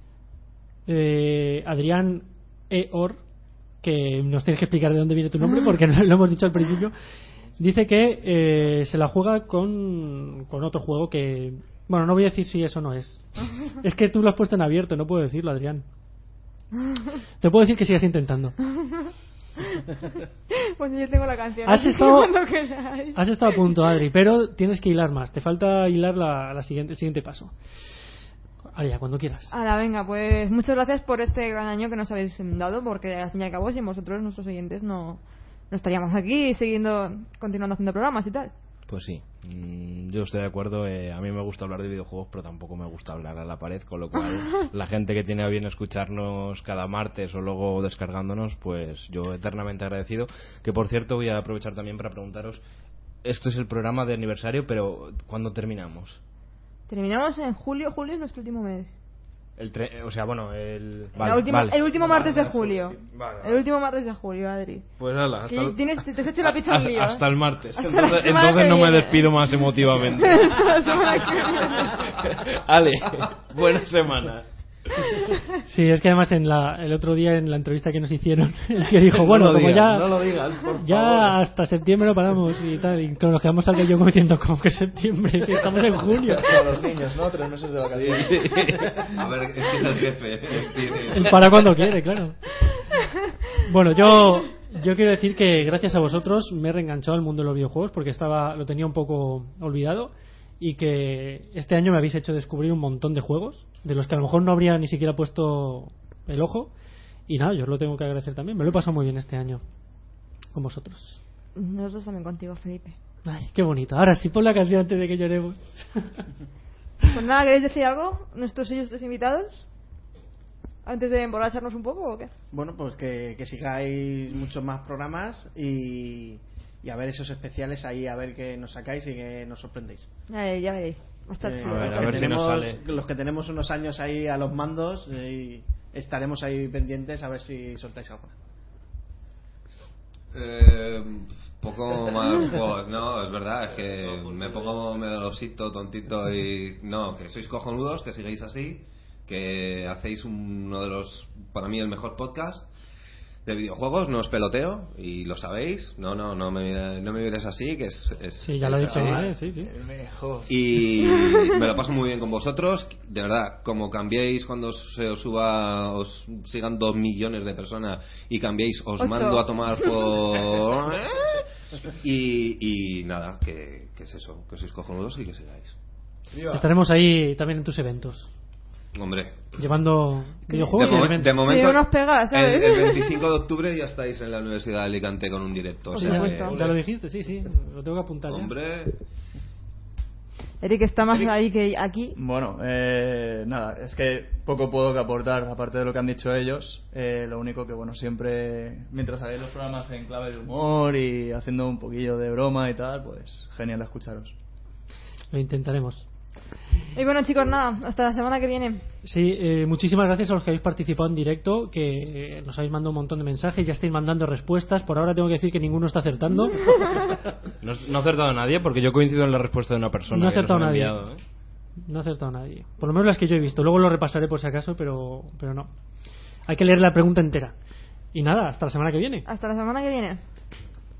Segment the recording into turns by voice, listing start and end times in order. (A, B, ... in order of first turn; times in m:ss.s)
0:00.9-0:03.2 A
0:03.8-0:06.9 A
0:05.4-0:05.7 B
0:07.6-0:15.8 A
0:16.8-0:17.1 B
0:17.4-0:18.6 A
0:18.7-0:23.9 B
0:21.6-0:22.3 A
0:23.1-0:27.5 A
0:28.7-0:29.5 A
0:29.5-0:38.5 B
0:38.9-0:52.6 C
0:44.3-0:44.6 B
0:53.2-0:56.2 C
0:56.9-0:58.9 B
0:59.6-1:02.3 C
1:01.2-1:04.9 B
1:02.1-1:02.5 D
1:03.1-1:03.6 C
1:05.0-1:15.0 C
1:05.5-1:09.5 B
1:10.0-1:12.1 B
1:15.7-1:26.7 A
1:19.1-1:21.4 C
1:26.1-1:29.0 D
1:27.9-1:29.2 C
1:29.1-1:31.5 E
1:31.1-1:32.4 A
1:33.6-1:46.7 A
1:47.3-1:49.6 A
1:50.5-1:51.2 A
1:51.6-1:53.0 B
1:53.2-1:56.2 A
1:57.1-1:59.6 B
2:00.8-2:02.3 B
2:02.5-2:10.1 F
2:10.3-2:12.4 B
2:11.4-2:18.3 F
2:11.6-2:12.8 C
2:20.3-2:32.7 E
2:23.8-2:25.0 C
2:33.4-2:39.2 E
2:38.4-2:39.7 A
2:38.6-2:40.6 D
2:40.5-2:55.7 E
2:41.1-2:41.6 B
2:49.0-2:50.2 B
2:56.3-2:56.6 C
2:56.5-2:58.3 A
2:58.9-2:59.5 E
2:59.6-3:01.4 A
3:00.5-3:06.6 E
3:00.6-3:03.2 B
3:05.9-3:06.6 B
3:06.0-3:08.5 A
3:06.5-3:06.8 C
3:08.3-3:09.0 E
3:10.6-3:12.1 B
3:12.1-3:24.3 D
3:25.3-3:26.0 A
3:26.9-3:28.8 B
3:29.0-3:36.8 A
3:37.6-3:41.2 C
3:40.1-3:41.0 A
3:41.9-3:45.7 A
3:46.5-3:47.5 A
3:48.1-3:49.3 A
3:49.2-3:50.2 B